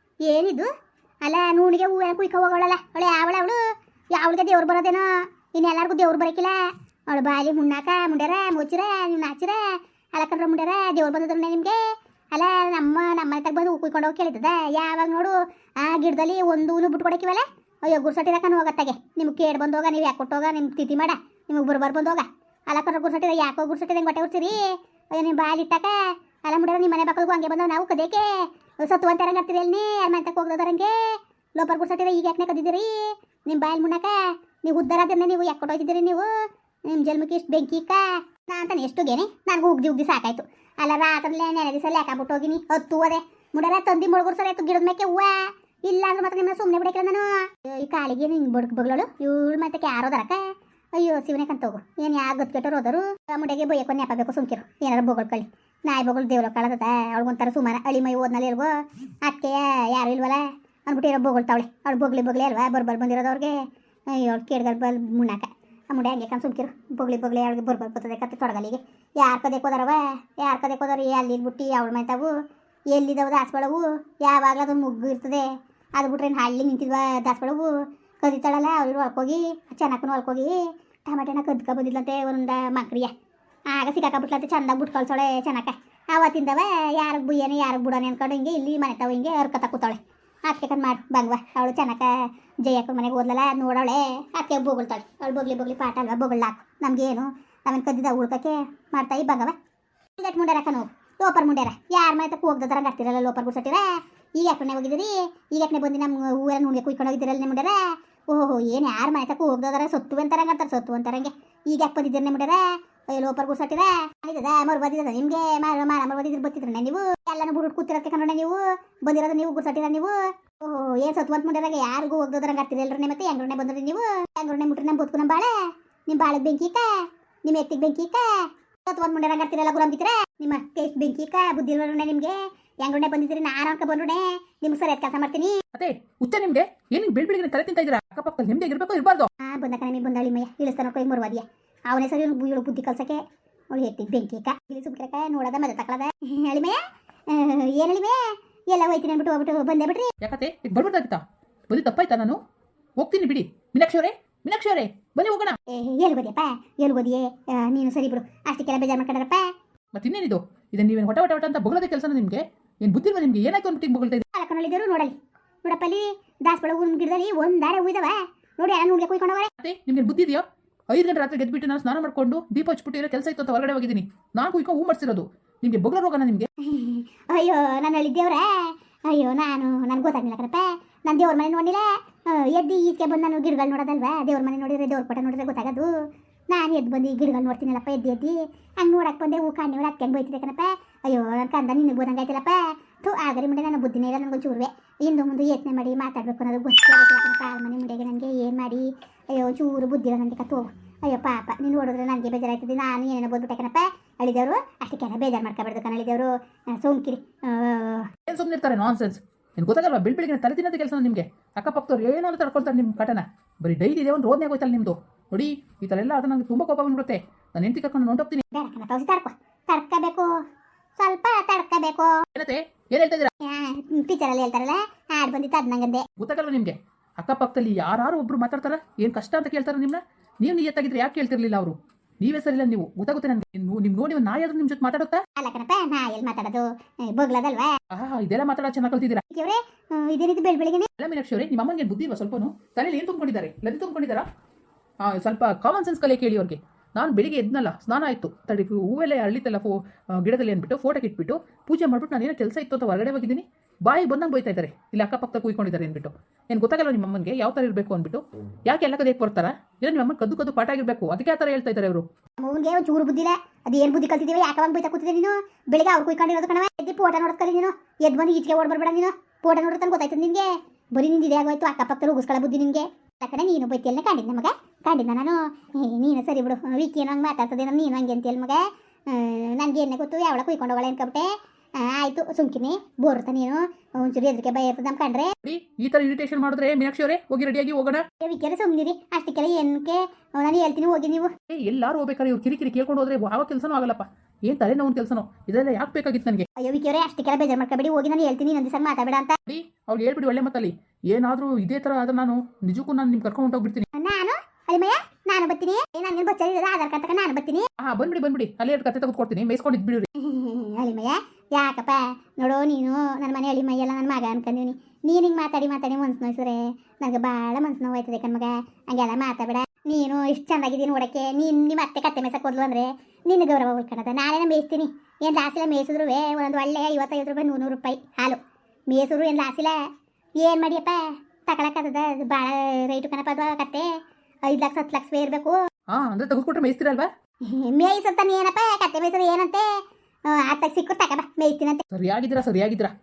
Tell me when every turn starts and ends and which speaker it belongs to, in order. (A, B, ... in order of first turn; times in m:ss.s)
0:00.2-0:00.7 A
0:01.2-0:03.6 A
0:04.1-0:06.6 A
0:07.1-0:11.8 A
0:12.3-1:12.3 A
1:12.9-1:23.1 A
1:23.7-1:39.6 A
1:40.2-2:15.6 A
2:15.8-2:19.3 B
2:19.4-2:30.1 A
2:30.2-2:32.4 B
2:33.0-2:35.6 B
2:35.7-2:39.5 A
2:39.9-2:44.3 B
2:44.3-2:49.5 A
2:49.6-2:56.5 B
2:56.6-3:05.9 A
3:06.5-3:28.1 A
3:28.3-3:38.4 B
3:38.5-3:40.3 A
3:41.0-3:42.1 A
3:42.4-3:43.3 B
3:43.4-3:46.1 A
3:46.2-3:55.2 B
3:55.4-3:57.7 A
3:57.9-3:59.2 B
3:59.3-4:00.9 A
4:01.0-4:04.3 B
4:05.0-4:22.0 B
4:22.4-4:45.3 A
4:45.4-4:48.0 B
4:48.2-4:51.3 A
4:51.5-4:56.5 B
4:56.6-4:59.4 A
4:59.5-5:03.9 B
5:03.9-5:07.7 A
5:07.8-5:10.1 B
5:10.2-5:29.8 A
5:30.4-5:33.9 A
5:34.5-5:35.6 A
5:35.9-5:37.1 B
5:37.5-5:39.7 A
5:40.3-5:41.8 A
5:41.9-5:42.9 B